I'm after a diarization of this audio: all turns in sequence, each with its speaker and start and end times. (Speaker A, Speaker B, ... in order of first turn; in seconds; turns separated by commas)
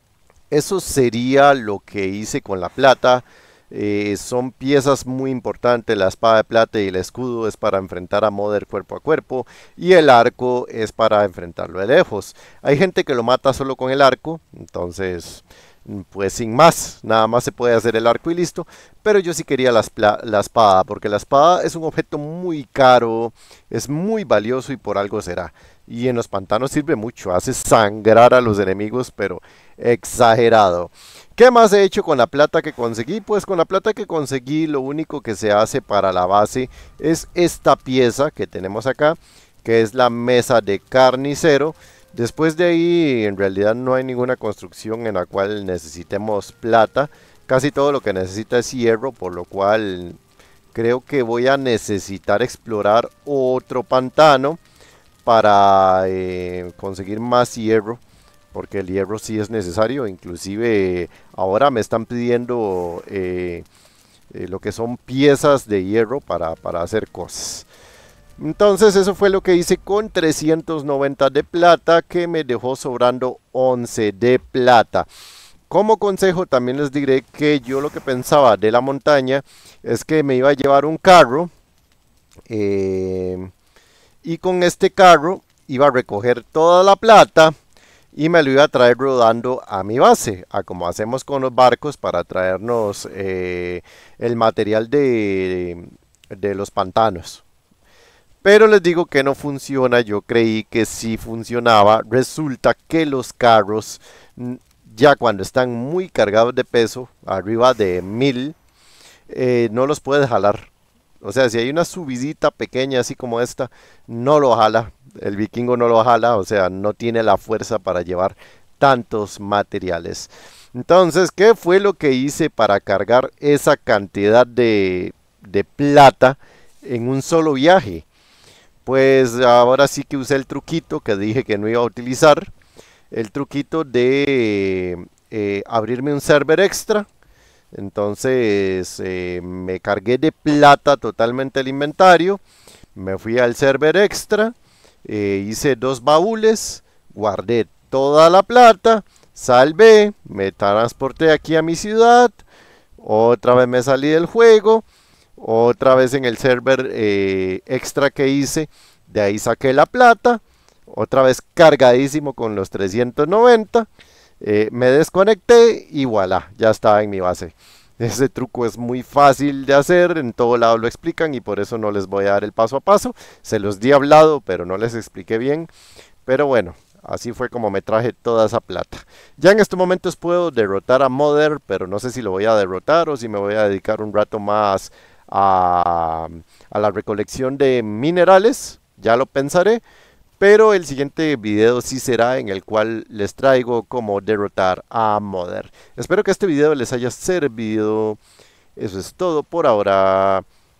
Speaker A: 0.5-50.2, Speaker A: 50.7-54.6, Speaker A: 55.2-58.0, Speaker A: 58.5-63.6, Speaker A: 64.3-67.7, Speaker A: 68.4-75.1, Speaker A: 75.7-81.5, Speaker A: 82.5-83.5, Speaker A: 84.2-87.5, Speaker A: 88.2-97.4, Speaker A: 98.4-108.5, Speaker A: 109.3-110.7, Speaker A: 111.2-128.0, Speaker A: 128.8-132.5, Speaker A: 133.1-137.1, Speaker A: 137.7-142.4, Speaker A: 142.9-144.5, Speaker A: 145.0-152.4, Speaker A: 153.0-154.8, Speaker A: 155.4-163.9, Speaker A: 164.4-175.7, Speaker A: 176.2-189.8, Speaker A: 190.4-198.2, Speaker A: 198.8-200.4